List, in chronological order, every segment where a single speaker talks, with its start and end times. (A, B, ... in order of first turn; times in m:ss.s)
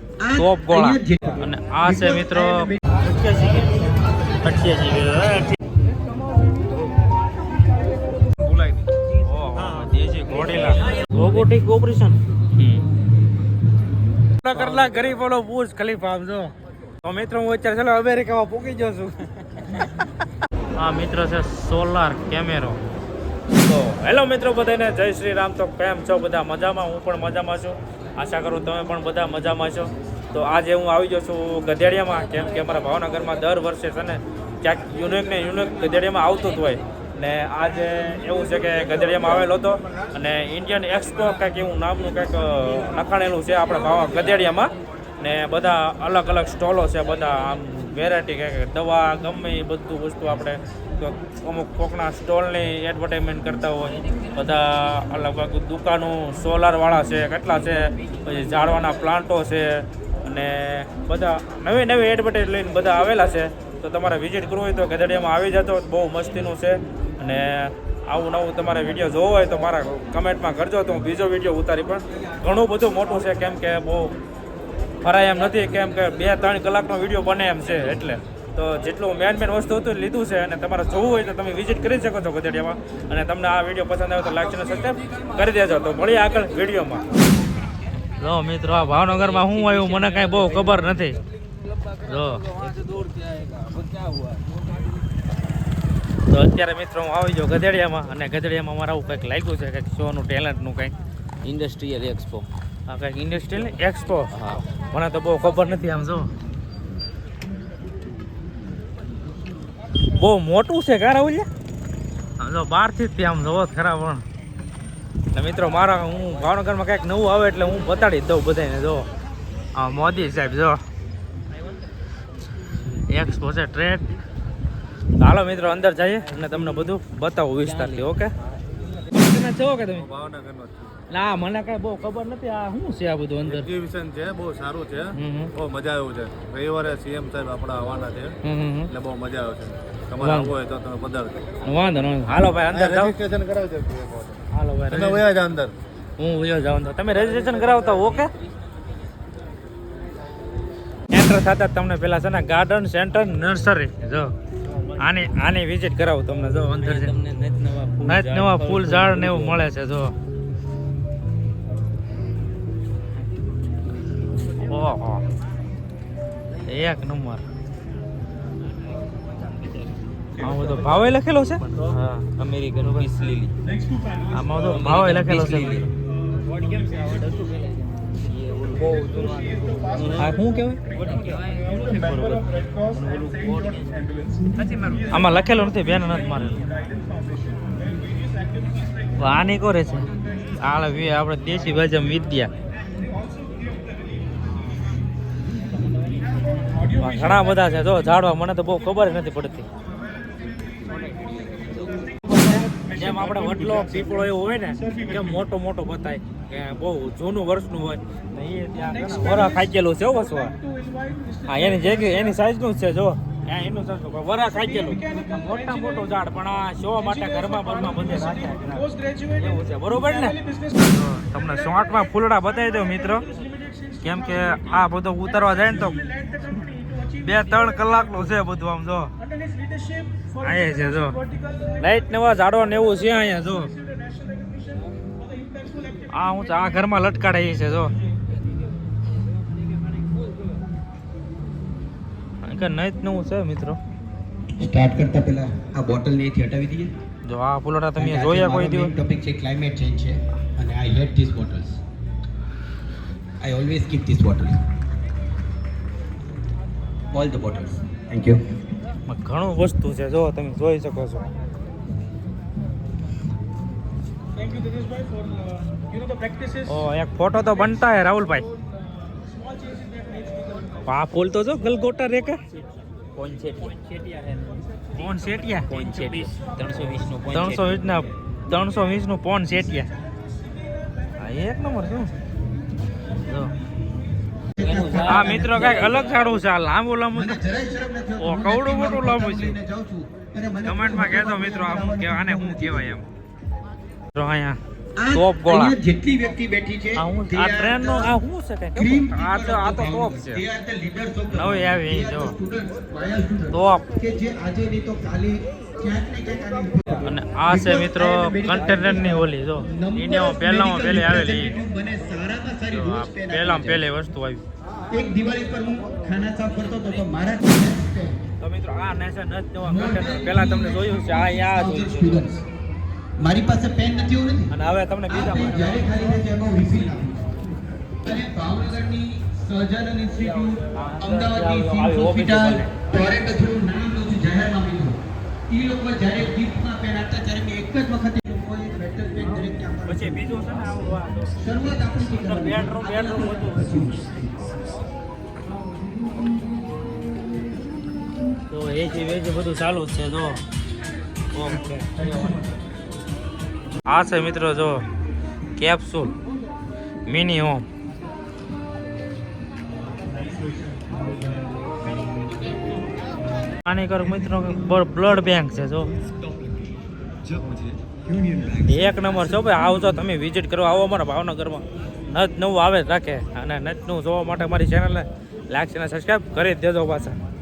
0:00.2-0:03.0 A
0:00.4-0:03.9 B
0:04.4-0:05.5 B
0:08.5-0:08.9 C
0:09.2-0:12.8 B
0:14.4-0:19.3 B
0:14.5-0:14.8 D
0:20.8-0:22.8 B
0:23.6-1:14.1 B
1:15.0-1:27.1 B
1:28.2-1:31.2 B
1:28.9-1:30.8 D
1:32.0-1:32.4 B
1:32.4-1:34.6 D
1:36.3-1:40.9 B
1:41.4-1:42.5 D
1:42.9-1:46.3 B
1:44.3-1:44.6 D
1:50.1-1:51.5 B
1:52.4-1:54.2 B
1:55.3-1:59.1 B
1:59.8-2:00.8 B
2:03.1-2:04.0 B
2:05.2-2:08.3 B
2:07.6-2:08.1 D
2:09.1-2:10.1 B
2:09.9-2:10.9 C
2:11.1-2:13.7 B
2:13.4-2:18.3 C
2:15.1-2:15.5 B
2:18.4-2:18.9 B
2:18.9-2:21.4 C
2:20.2-2:20.5 B
2:21.6-2:23.1 B
2:22.7-2:25.7 C
2:24.5-2:25.2 B
2:26.2-2:28.3 B
2:27.4-2:28.8 D
2:31.1-2:34.3 B
2:35.0-2:37.2 B
2:36.8-2:39.6 D
2:38.0-2:40.1 B
2:44.5-2:45.2 B
2:46.6-2:47.4 B
2:50.4-2:52.2 B
2:51.7-2:53.5 D
2:52.8-2:53.1 B
2:53.9-2:54.3 E
2:54.3-2:55.9 B
2:54.6-2:55.9 D
2:56.5-3:00.3 D
3:00.2-3:00.8 B
3:00.9-3:02.0 D
3:01.8-3:03.7 B
3:02.7-3:04.0 D
3:04.6-3:05.4 D
3:05.1-3:06.6 B
3:06.8-3:07.5 E
3:08.5-3:08.8 E
3:09.2-3:12.5 B
3:13.0-3:13.8 E
3:16.8-3:17.7 E
3:17.0-3:19.7 B
3:21.0-3:22.0 D
3:22.3-3:23.7 E
3:22.8-3:30.5 B
3:29.1-3:29.5 E
3:30.5-3:32.2 E
3:31.4-3:43.3 B
3:34.8-3:35.9 E
3:37.1-3:39.5 E
3:40.3-3:40.7 E
3:43.3-3:44.6 E
3:44.0-3:46.1 B
3:46.0-3:47.9 E
3:47.1-3:49.1 B
3:49.2-3:51.8 E
3:50.4-3:51.2 B
3:51.8-3:53.7 B
3:53.9-3:56.7 E
3:56.1-3:57.9 B
4:02.4-4:03.8 B
4:04.6-4:06.9 A
4:07.2-4:08.9 B
4:08.0-4:11.8 A
4:13.4-4:14.6 A
4:17.1-4:18.4 A
4:19.1-4:21.2 B
4:24.4-4:26.6 E
4:26.6-4:28.4 B
4:29.3-4:30.7 E
4:30.8-4:32.4 B
4:33.1-4:34.6 D
4:34.9-4:35.7 B
4:35.5-4:37.8 D
4:37.3-4:39.9 B
4:41.2-4:42.1 B
4:43.2-4:43.5 B
4:44.6-4:45.9 A
4:44.6-4:46.2 D
4:45.0-4:47.4 B
4:47.1-4:53.0 A
4:48.2-4:49.6 B
4:50.6-4:53.1 B
4:54.1-4:54.6 B
4:55.0-4:58.2 A
4:55.1-4:55.8 B
4:57.0-5:00.4 B
4:58.7-5:13.8 A
5:01.3-5:02.3 B
5:03.5-5:03.9 B
5:07.0-5:11.5 B
5:12.7-5:14.4 B
5:14.9-5:18.2 A
5:18.4-5:22.3 B
5:19.6-5:22.4 A
5:23.2-5:24.5 A
5:24.5-5:26.1 B
5:25.1-5:27.3 A
5:28.0-5:35.0 A
5:30.7-5:32.7 B
5:35.5-5:40.3 A
5:39.2-5:41.4 B
5:41.4-5:44.2 A
5:42.0-5:43.9 B
5:48.5-5:50.4 B
5:51.3-5:52.0 B
5:53.9-5:54.8 B
5:55.6-5:56.1 B
5:57.1-5:57.6 B
6:03.6-6:05.9 B
6:08.6-6:17.2 B